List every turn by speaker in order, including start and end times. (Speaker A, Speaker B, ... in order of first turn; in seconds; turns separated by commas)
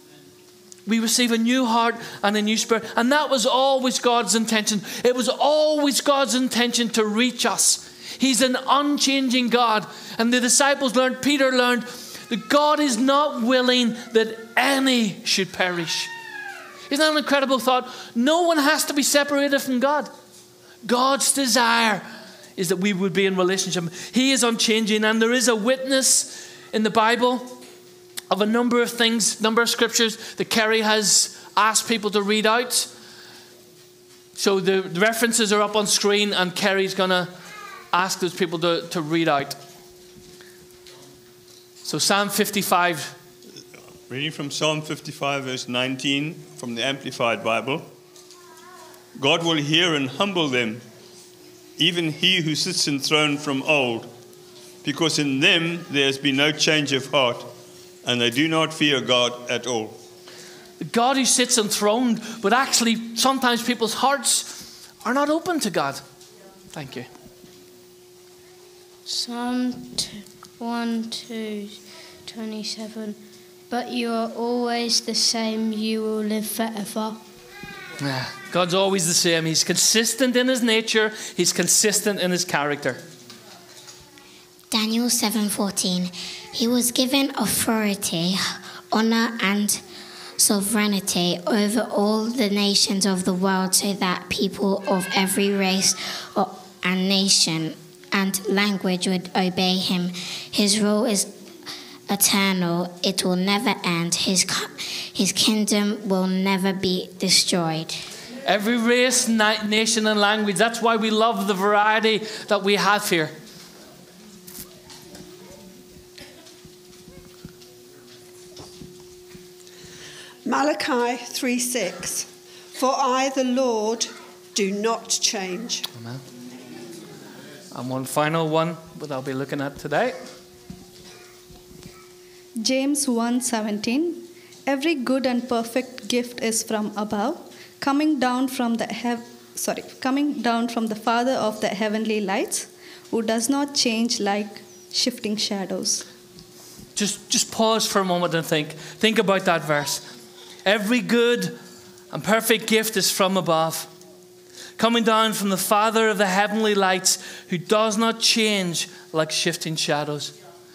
Speaker A: 0.8-16.1, Speaker A: 16.9-20.1, Speaker A: 20.8-22.0, Speaker A: 22.6-27.6, Speaker A: 28.3-32.9, Speaker A: 34.4-37.3, Speaker A: 37.9-39.6, Speaker A: 41.8-43.1, Speaker B: 44.1-47.9, Speaker B: 49.1-50.8, Speaker B: 51.8-54.1, Speaker B: 54.8-57.5, Speaker B: 58.0-60.0, Speaker A: 60.8-66.0, Speaker A: 66.7-67.1, Speaker C: 69.0-77.2, Speaker A: 78.0-83.0, Speaker D: 84.7-89.8, Speaker D: 90.4-101.3, Speaker D: 102.1-107.9, Speaker A: 108.5-113.3, Speaker E: 120.4-125.9, Speaker A: 125.9-126.2, Speaker A: 127.7-130.2, Speaker F: 132.6-146.0, Speaker A: 146.9-150.0, Speaker A: 150.6-151.6, Speaker A: 152.1-153.9, Speaker A: 154.8-160.3